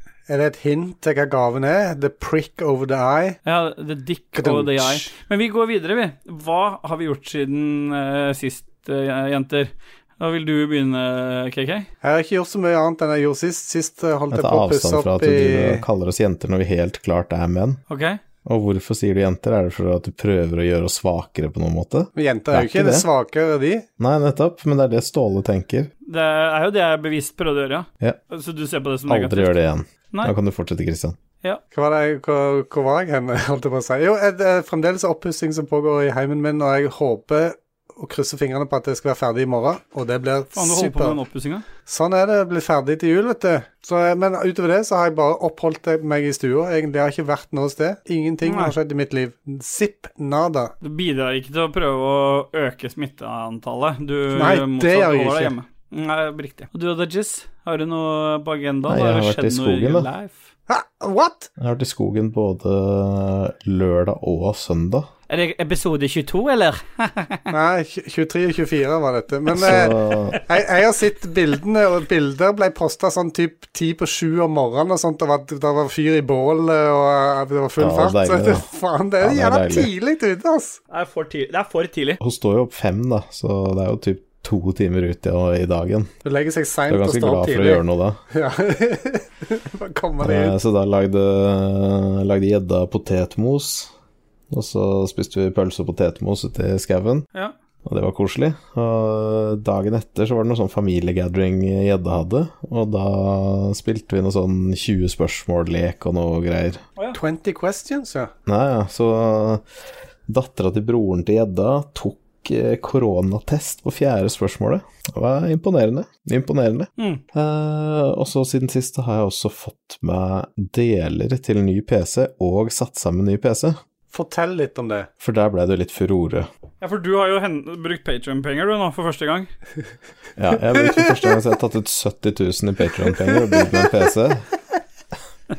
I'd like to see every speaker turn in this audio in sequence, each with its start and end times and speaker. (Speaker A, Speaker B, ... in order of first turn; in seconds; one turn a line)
Speaker A: 0.3-3.4
Speaker B: 3.5-11.9
Speaker A: 4.4-5.1
Speaker A: 12.0-15.8
Speaker C: 14.3-17.8
Speaker B: 17.9-18.2
Speaker C: 18.4-23.1
Speaker A: 22.1-23.9
Speaker C: 24.0-25.9
Speaker B: 26.1-29.6
Speaker C: 29.1-31.2
Speaker A: 31.7-41.2
Speaker B: 40.6-41.6
Speaker A: 41.9-50.7
Speaker B: 48.5-48.8
Speaker B: 50.8-60.4
Speaker A: 54.3-55.5
Speaker C: 58.9-60.1
Speaker A: 60.7-61.5
Speaker C: 61.6-65.1
Speaker B: 65.3-67.4
Speaker A: 67.5-80.8
Speaker C: 69.5-70.4
Speaker C: 77.8-78.7
Speaker C: 79.2-79.9
Speaker B: 80.9-82.2
Speaker C: 82.2-86.1
Speaker A: 86.2-90.6
Speaker C: 86.9-88.2
Speaker C: 90.2-93.9
Speaker C: 94.5-97.2
Speaker C: 97.8-106.8
Speaker A: 107.1-108.3
Speaker C: 108.5-109.6
Speaker C: 110.3-123.8
Speaker A: 124.1-125.1
Speaker C: 125.2-126.5
Speaker B: 126.8-129.5
Speaker C: 130.4-134.5